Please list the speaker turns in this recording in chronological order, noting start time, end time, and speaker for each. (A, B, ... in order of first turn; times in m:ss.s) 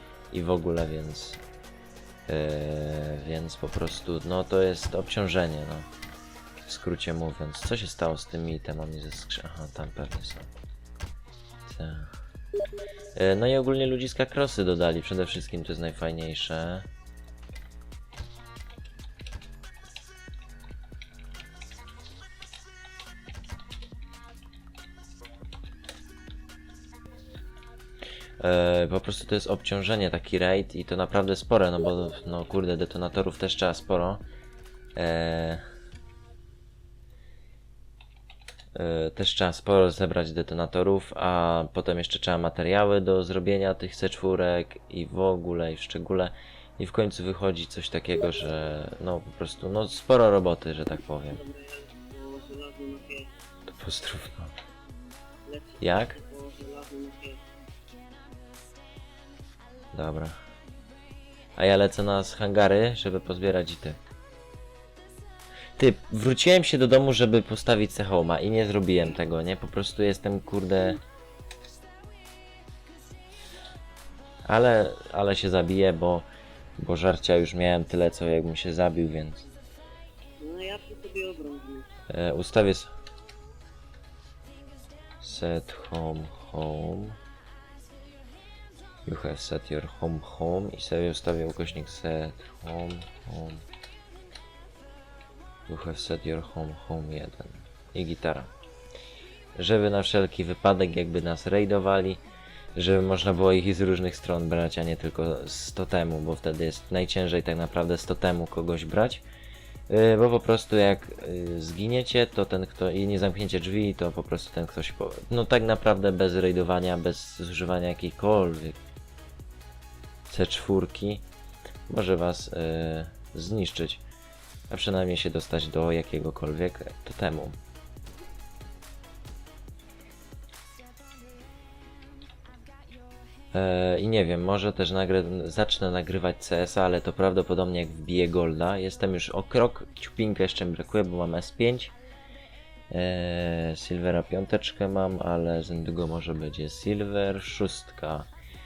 0:00.3-0:01.4 A
0:02.3-0:05.9 A
0:06.6-0:10.5 A
0:11.7-0:12.1 A
0:13.2-0:16.9 A
0:28.4-0:34.2 A
0:35.0-0:35.6 A
0:38.8-0:51.4 A
0:51.3-0:53.3 B
0:53.7-0:54.5 A
0:55.5-0:57.4 B
0:55.8-0:56.2 A
0:59.9-1:00.4 A
1:01.6-1:04.0 A
1:05.8-1:11.0 A
1:14.5-1:16.3 A
1:16.8-1:19.5 A
1:20.4-1:21.9 B
1:22.1-1:22.9 A
1:25.2-1:27.2 A
1:29.1-1:33.6 A
1:35.7-1:38.5 A
1:39.6-1:42.2 A
1:42.8-1:49.2 A
1:49.9-1:58.8 A
2:00.3-2:01.2 A
2:01.9-2:04.0 A
2:04.7-2:07.6 A
2:13.5-2:22.0 A
2:22.9-2:28.3 A